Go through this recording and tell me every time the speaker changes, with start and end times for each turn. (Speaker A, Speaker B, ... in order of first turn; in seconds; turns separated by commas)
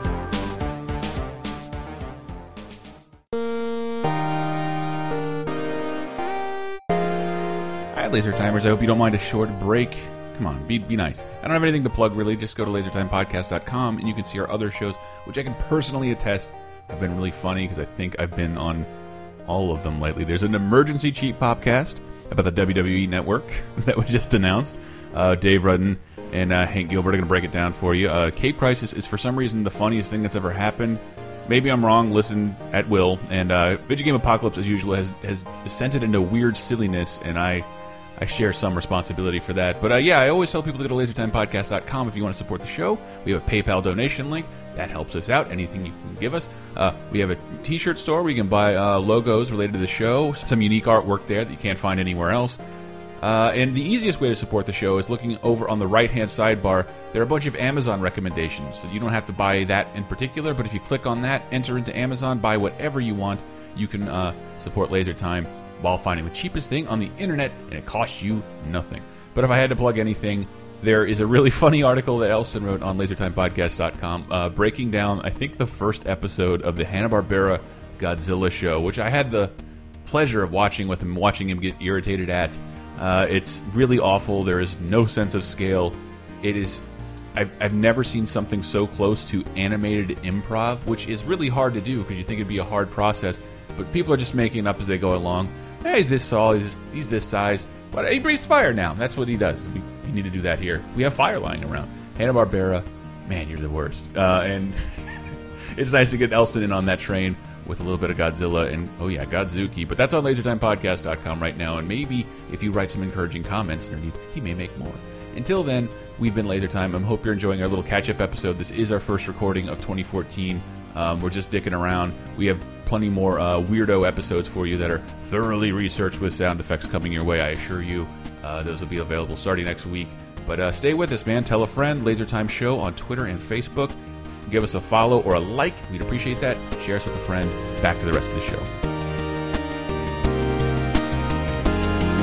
Speaker A: 7.9-18.9, Speaker A: 19.4-37.6, Speaker A: 38.2-52.6, Speaker A: 53.2-79.5, Speaker A: 80.0-138.7